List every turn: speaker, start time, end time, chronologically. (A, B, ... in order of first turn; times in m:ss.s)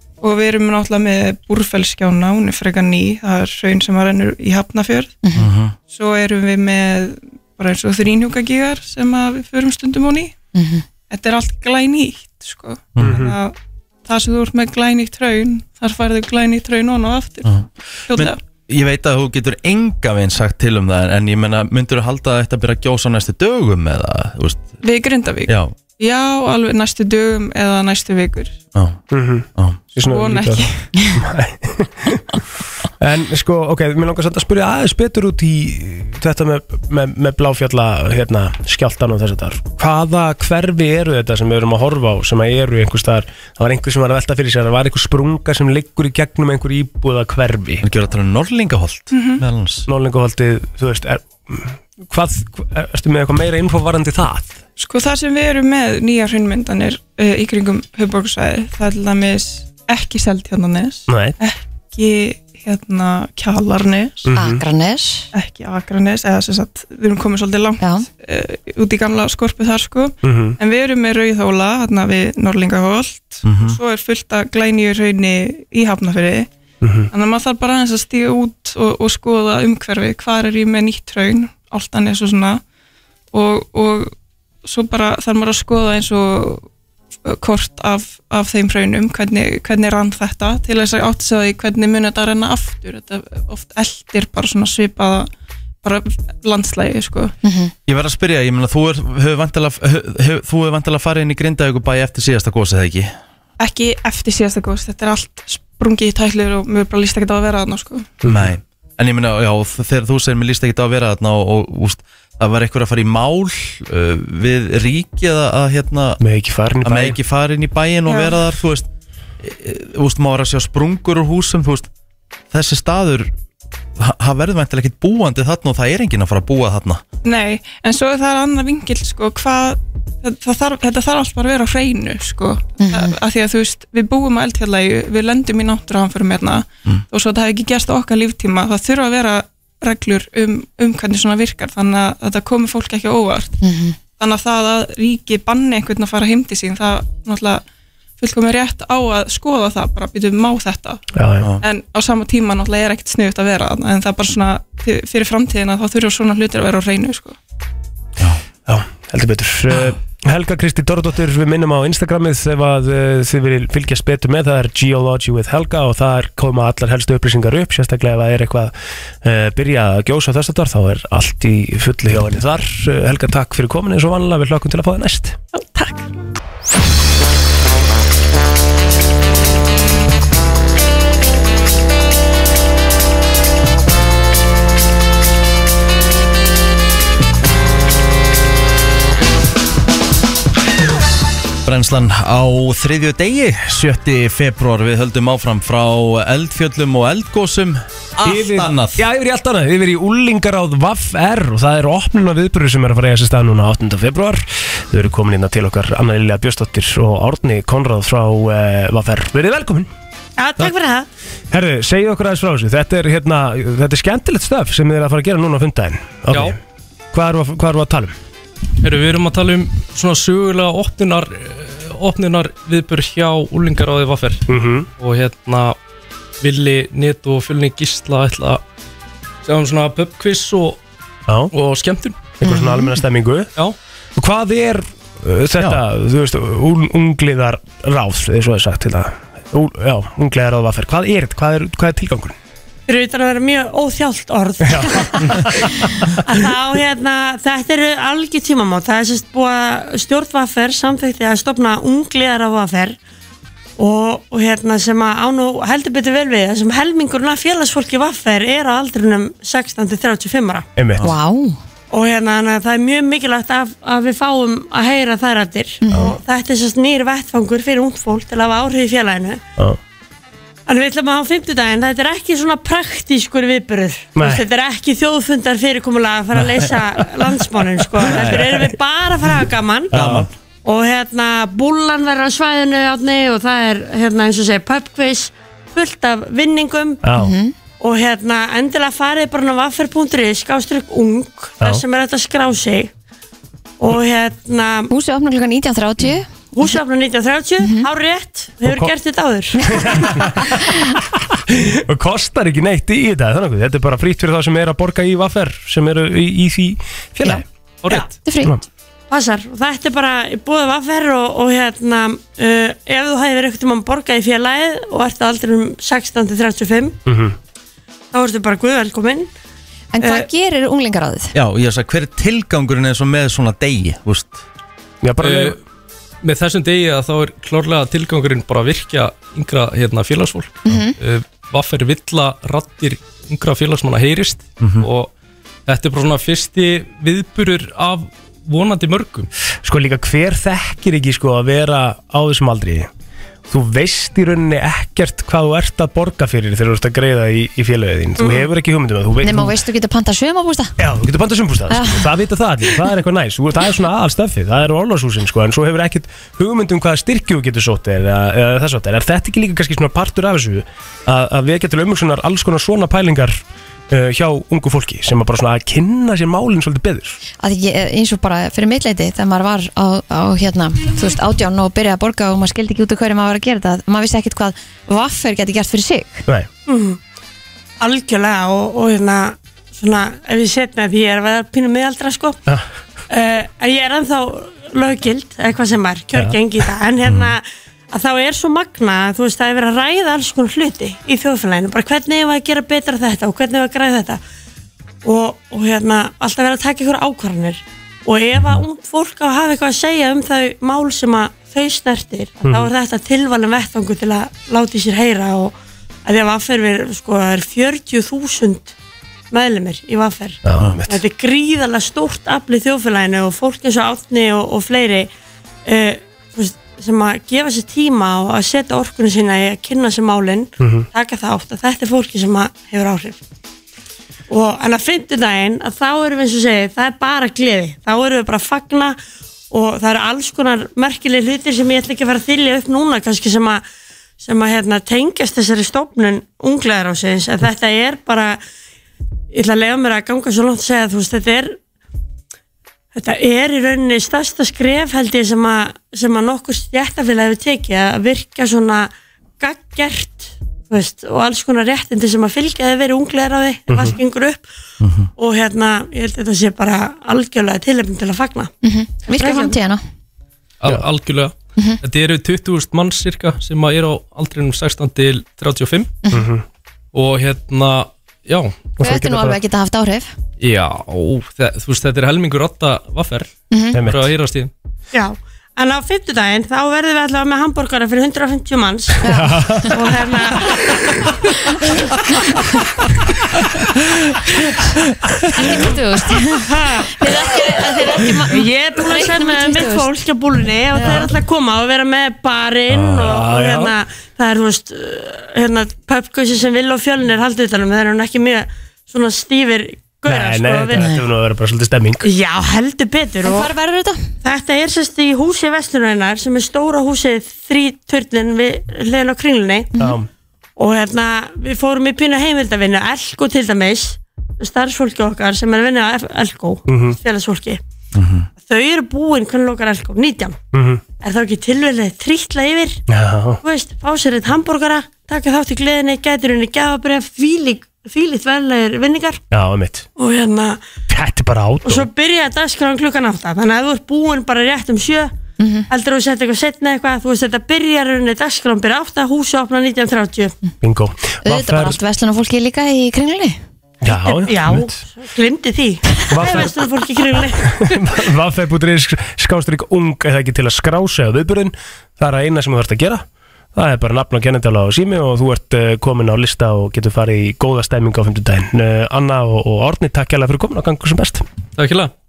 0:00.2-0:05.1 A
0:05.2-0:05.5 B
0:05.4-0:05.7 C
0:05.9-0:10.3 A
0:10.5-0:10.8 B
0:11.1-0:17.6 A
0:13.0-0:13.4 D
0:17.4-0:24.8 C
0:18.1-0:18.4 A
0:24.8-0:28.5 A
0:25.5-0:25.7 C
0:28.7-0:29.0 C
0:29.1-0:32.4 D
0:29.5-0:29.8 C
0:29.9-0:30.9 A
0:33.0-0:47.8 D
0:47.8-0:49.9 C
0:49.1-0:49.4 A
0:49.9-0:54.6 D
0:54.8-1:04.3 A
1:01.1-1:01.4 D
1:04.2-1:04.6 D
1:04.3-1:05.3 B
1:05.3-1:16.5 A
1:07.8-1:08.1 B
1:10.2-1:10.6 D
1:13.4-1:13.8 C
1:16.8-1:17.1 D
1:17.1-1:22.6 A
1:23.3-1:26.6 A
1:27.2-1:35.3 A
1:35.8-1:37.3 A
1:37.4-1:37.7 B
1:37.9-1:43.1 C
1:43.6-1:48.1 A
1:48.2-1:48.5 D
1:48.2-1:56.2 C
1:56.2-1:57.2 D
1:56.8-1:58.9 C
1:58.1-1:58.4 A
1:59.4-2:01.9 C
2:02.5-2:03.3 C
2:04.0-2:07.0 C
2:07.2-2:23.6 A
2:12.8-2:13.2 B
2:23.6-2:24.0 B
2:24.2-2:27.6 A
2:28.2-2:31.0 A
2:31.1-2:31.5 D
2:31.6-2:37.4 A
2:38.6-2:55.4 D
3:11.6-3:19.0 C
3:18.2-3:29.9 D
3:30.4-3:31.1 E
3:31.5-3:36.6 D
3:36.3-3:36.6 F
3:37.1-3:38.1 D
3:38.8-3:44.4 F
3:44.5-3:44.9 D
3:45.0-3:45.8 F
3:46.4-3:48.6 F
3:49.4-3:50.8 F
3:51.5-3:52.2 F
3:52.4-3:53.5 D
3:52.4-3:53.0 B
3:54.2-4:02.3 D
4:02.9-4:05.7 E
4:04.6-4:06.1 D
4:06.2-4:13.0 E
4:13.8-4:20.7 E
4:20.8-4:21.0 D
4:21.0-4:21.6 B
4:21.9-4:29.4 E
4:25.8-4:26.2 B
4:30.7-4:40.0 E
4:34.2-4:34.4 D
4:36.4-4:36.6 C
4:38.0-4:38.6 C
4:39.9-4:40.3 C
4:39.9-4:40.3 D
4:40.6-4:47.0 E
4:47.0-4:47.3 D
4:47.2-4:47.5 B
4:47.8-4:52.9 E
4:53.8-4:54.9 E
4:54.9-4:56.6 B
4:56.5-4:59.6 E
4:57.6-4:57.9 B
4:58.6-4:58.9 D
4:59.6-5:00.7 B
4:59.6-5:07.4 D
5:07.8-5:08.1 F
5:08.1-5:08.5 B
5:09.1-5:17.0 E
5:17.0-5:17.4 D
5:18.1-5:19.3 E
5:19.9-5:21.3 B
5:20.0-5:20.3 E
5:21.3-5:24.4 C
5:25.0-5:25.6 D
5:25.2-5:25.6 F
5:26.2-5:35.1 F
5:30.6-5:31.0 B
5:34.6-5:34.9 C
5:35.7-5:39.3 F
5:39.6-5:42.9 D
5:43.5-5:49.6 D
5:48.2-5:48.5 E
5:49.2-5:50.7 B
5:50.8-6:07.2 D
5:51.7-5:52.1 B
6:07.4-6:16.2 B
6:16.7-6:17.0 E
6:17.8-6:22.4 E
6:23.1-6:34.2 E
6:27.0-6:27.3 C
6:35.0-6:48.7 E
6:38.4-6:38.6 C
6:42.4-6:42.7 D
6:49.3-6:55.1 E
6:50.4-6:51.0 D
6:55.6-7:03.2 E
7:00.6-7:00.9 D
7:04.3-7:09.0 E
7:09.5-7:13.6 E
7:14.2-7:18.4 E
7:19.3-7:21.6 E
7:22.9-7:34.4 E
7:33.7-7:34.0 D
7:34.8-7:35.1 C
7:35.2-7:38.5 E
7:38.6-7:39.8 B
7:39.1-7:39.6 E
7:40.6-7:45.9 F
7:46.1-7:46.4 D
7:46.9-7:48.8 F
7:48.8-7:49.4 D
7:48.8-7:50.1 B
7:50.4-7:54.5 F
7:53.5-7:53.8 B
7:53.7-7:54.1 D
7:54.9-7:59.0 E
7:59.0-7:59.8 B
7:59.0-7:59.8 D
7:59.7-8:01.1 E
8:01.4-8:02.6 B
8:05.3-8:09.9 B
8:06.4-8:20.9 E
8:10.7-8:11.1 B
8:12.7-8:13.1 C
8:12.9-8:13.7 D
8:20.0-8:22.0 D
8:22.0-8:23.5 E
8:23.2-8:24.1 B
8:24.2-8:29.7 E
8:29.8-8:30.1 D
8:30.6-8:37.6 E
8:36.7-8:37.0 D
8:37.9-8:38.3 C
8:38.4-8:40.4 E
8:40.5-8:40.8 D
8:41.0-8:42.8 E
8:42.9-8:43.4 D
8:43.4-8:49.2 E
8:49.3-8:49.8 D
8:50.0-8:50.6 E
8:50.9-8:51.9 D
8:51.6-8:55.1 E
8:55.4-8:55.7 B
8:55.7-9:00.3 E
9:00.6-9:01.8 D
9:01.2-9:03.4 B
9:03.8-9:04.8 D
9:03.9-9:07.7 E
9:06.1-9:06.6 D
9:07.3-9:13.0 D
9:13.5-9:21.2 D
9:21.6-9:21.9 F